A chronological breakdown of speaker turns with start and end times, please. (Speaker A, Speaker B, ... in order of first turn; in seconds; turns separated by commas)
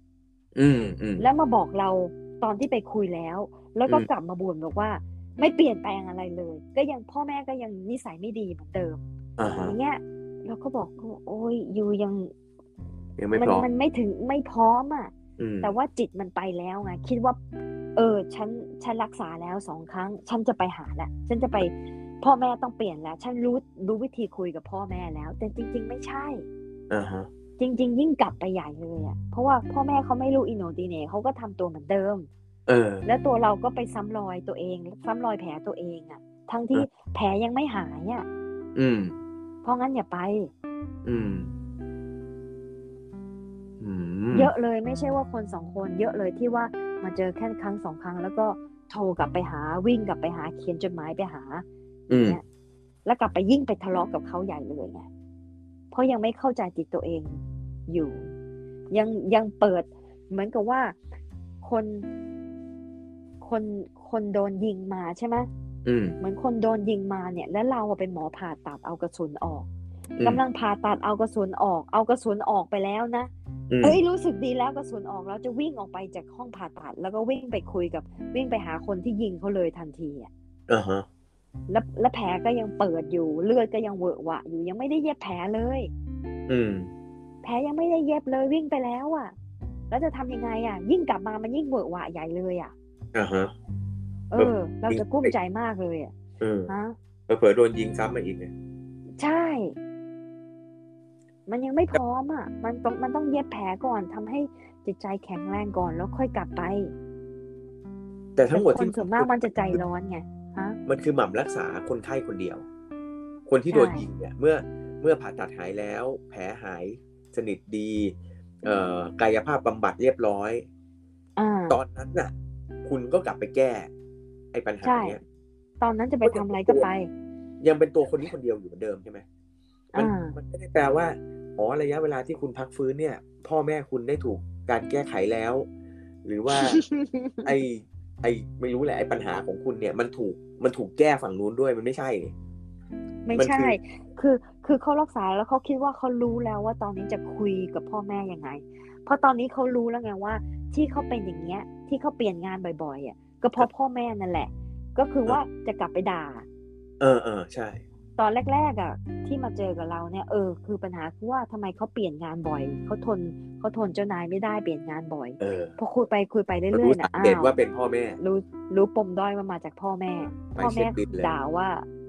Speaker A: 0.6-1.3, Speaker B: 1.2-9.0, Speaker A: 9.4-9.8, Speaker B: 9.6-12.3, Speaker A: 13.2-13.7, Speaker B: 13.4-15.1, Speaker A: 15.4-15.7, Speaker B: 15.6-17.4, Speaker B: 18.0-26.5, Speaker A: 26.9-27.3, Speaker B: 27.6-32.3, Speaker A: 32.7-33.0, Speaker B: 33.0-38.2, Speaker A: 38.8-39.1, Speaker B: 39.6-40.5, Speaker A: 41.0-41.5, Speaker A: 43.8-44.5, Speaker B: 44.3-52.4, Speaker A: 52.1-52.4, Speaker B: 53.0-55.0, Speaker B: 55.9-57.3, Speaker B: 57.9-58.3, Speaker B: 58.9-61.0, Speaker B: 61.6-62.1, Speaker B: 63.4-65.5, Speaker A: 65.9-66.2, Speaker B: 66.2-69.7, Speaker B: 70.2-73.3, Speaker A: 73.7-74.0, Speaker B: 73.8-80.3, Speaker A: 80.7-81.0, Speaker B: 81.7-85.9, Speaker A: 86.5-86.9, Speaker B: 87.4-89.3, Speaker B: 89.9-92.7, Speaker A: 93.1-93.5, Speaker B: 94.3-96.1, Speaker A: 94.4-95.3, Speaker A: 96.4-96.7, Speaker B: 96.7-97.0, Speaker A: 97.3-98.5, Speaker B: 99.2-99.8, Speaker B: 101.5-106.9, Speaker A: 108.4-109.8, Speaker B: 108.5-110.8, Speaker A: 110.9-112.6, Speaker A: 113.5-120.7, Speaker B: 113.7-114.1, Speaker B: 121.4-121.8, Speaker A: 121.7-122.3, Speaker A: 122.8-123.9, Speaker A: 124.5-125.2, Speaker B: 124.8-125.2, Speaker B: 125.8-127.1, Speaker A: 126.2-126.9, Speaker A: 127.6-129.2, Speaker B: 129.9-130.4, Speaker A: 130.0-135.7, Speaker A: 136.2-136.8, Speaker B: 136.6-137.5, Speaker A: 137.4-142.3, Speaker B: 143.2-156.5, Speaker A: 143.3-143.8, Speaker A: 157.0-157.8, Speaker B: 158.2-167.5, Speaker A: 165.4-165.8, Speaker A: 166.7-168.2, Speaker B: 168.2-171.8, Speaker A: 170.2-171.3